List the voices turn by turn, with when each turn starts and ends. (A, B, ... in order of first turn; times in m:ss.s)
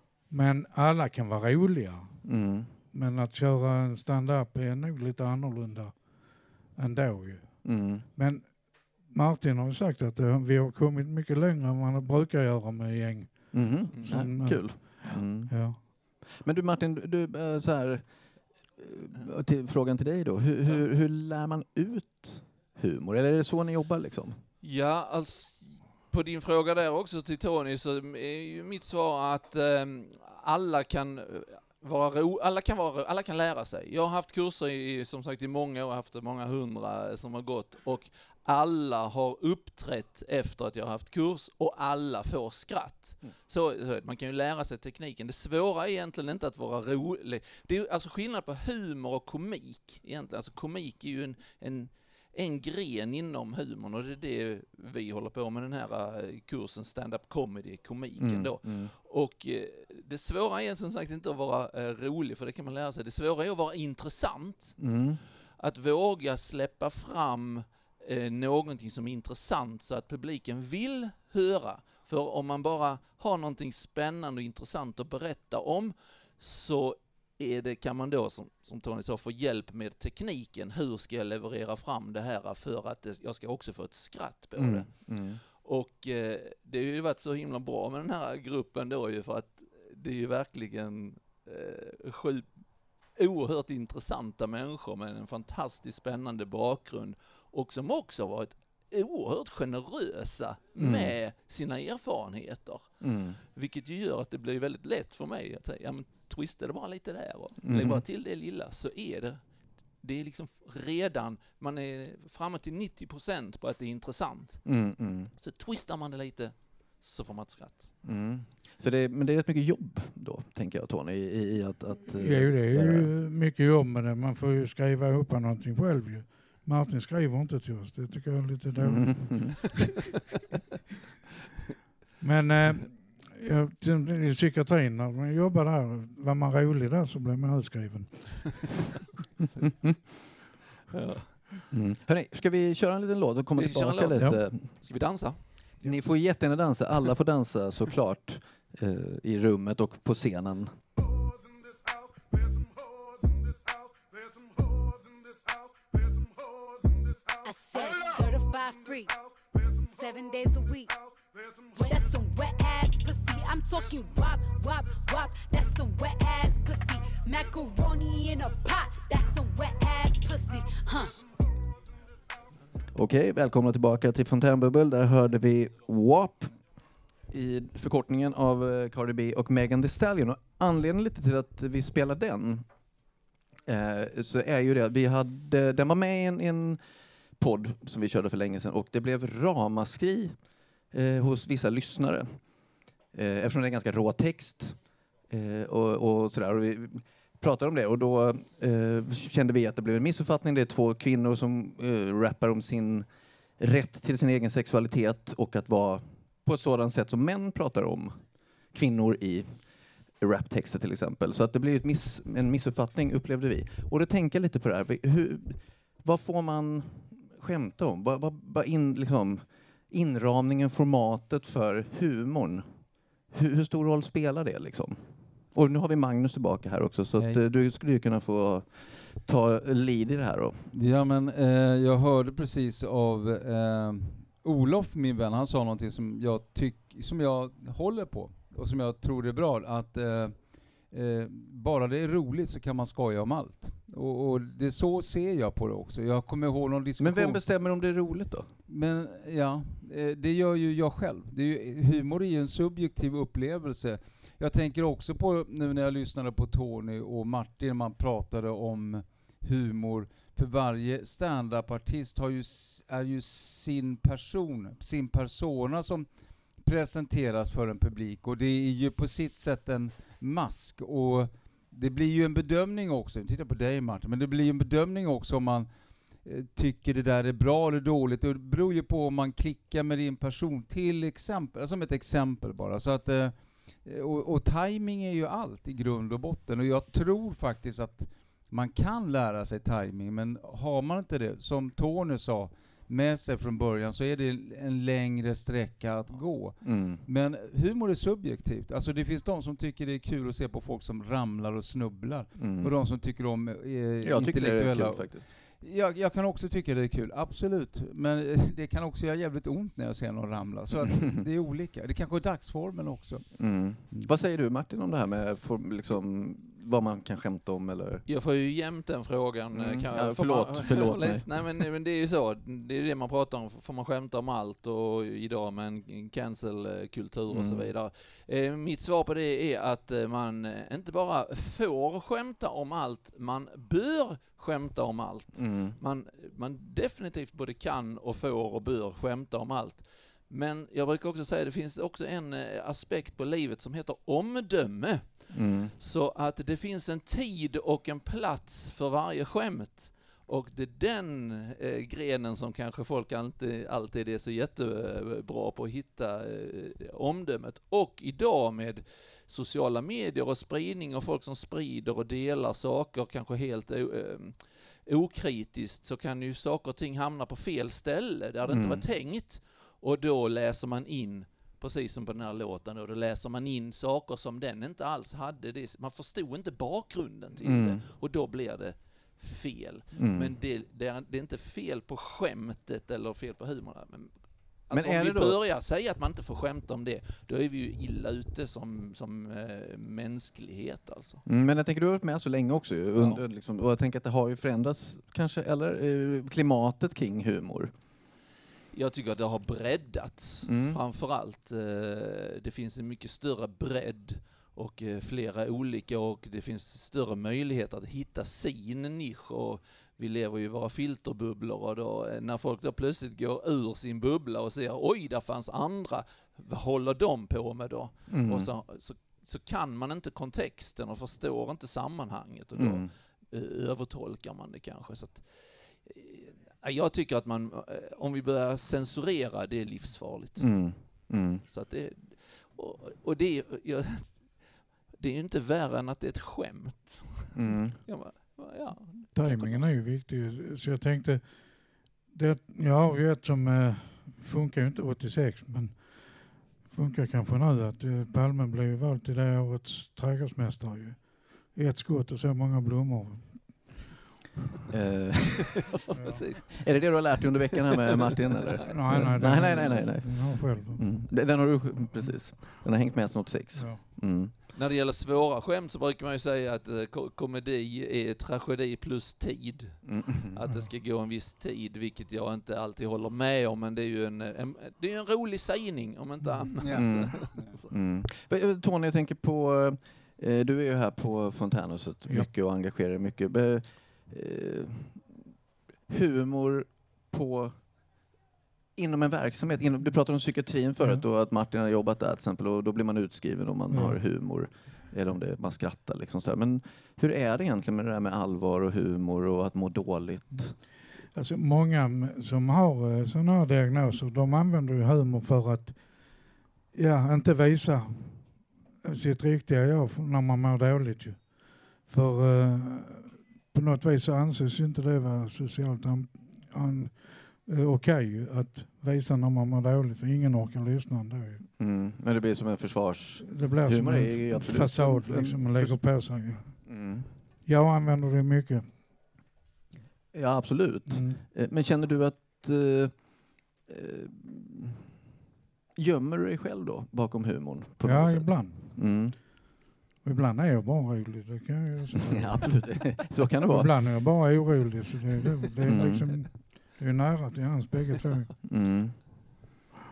0:00.3-0:02.4 A
0:02.2-0:02.7 B
0:02.9-0:15.8 A
0:07.6-0:08.0 B
0:13.5-0:18.1 B
0:18.8-0:24.4 B
0:24.6-1:04.8 C
0:58.2-0:58.9 B
1:04.8-1:05.2 B
1:05.6-1:49.4 C
1:24.6-1:25.4 B
1:40.8-1:41.1 B
1:43.0-1:43.4 B
1:47.6-1:48.0 B
1:50.0-1:54.8 C
1:54.6-1:55.3 B
1:55.4-1:57.9 C
1:58.0-2:03.1 B
2:02.1-2:09.6 A
2:08.8-2:09.7 B
2:12.2-2:18.7 A
2:20.9-2:21.6 C
2:21.7-2:24.7 B
2:23.6-2:25.5 C
2:25.8-2:30.8 B
2:37.4-2:39.2 D
2:39.8-2:41.0 D
2:41.7-2:51.2 D
2:52.9-2:56.5 B
2:57.3-3:02.6 B
3:03.6-3:06.8 B
3:07.4-3:10.4 B
3:10.9-3:12.5 B
3:13.1-3:23.1 B
3:23.6-3:28.2 B
3:28.7-3:29.5 B
3:30.2-3:50.7 B
3:47.2-3:47.4 E
3:50.7-4:07.4 E
4:07.0-4:08.5 B
4:08.7-5:14.1 E
4:56.6-4:57.0 B
5:02.4-5:02.7 B
5:04.0-5:05.3 B
5:13.4-5:18.0 B
5:18.0-6:24.2 C
5:19.5-5:21.6 B
5:27.3-5:27.7 B
5:35.4-5:35.7 B
5:45.3-5:45.7 B
6:08.5-6:08.8 B
6:17.4-6:17.8 B
6:20.0-6:20.3 B
6:24.7-6:31.2 C
6:24.7-6:25.4 B
6:31.2-6:37.7 B
6:32.9-6:33.2 C
6:38.7-7:19.6 C
6:40.4-6:40.8 B
6:58.1-6:58.5 B
7:02.6-7:02.9 B
7:10.4-7:11.4 B
7:17.3-7:17.8 B
7:19.1-7:33.8 A
7:34.7-7:35.6 B
7:35.8-7:39.0 C
7:35.9-7:36.4 A
7:36.5-7:44.3 B
7:38.6-7:40.9 A
7:41.9-7:42.4 A
7:43.5-7:43.8 A
7:44.5-7:57.7 C
7:49.8-7:50.4 B
7:56.6-7:57.5 E
7:56.7-8:05.3 B
8:05.9-8:07.6 B
8:08.8-8:20.6 B
8:13.7-8:14.0 A
8:20.3-8:41.4 A
8:41.6-8:47.1 B
8:43.2-8:46.8 A
8:47.4-8:48.8 A
8:50.1-8:54.9 B
8:50.9-8:51.2 A
8:55.8-8:59.2 B
8:57.8-8:59.0 A
9:00.0-9:02.5 A
9:02.1-9:03.7 B
9:03.5-9:08.3 A
9:05.6-9:06.1 B
9:08.4-9:09.0 B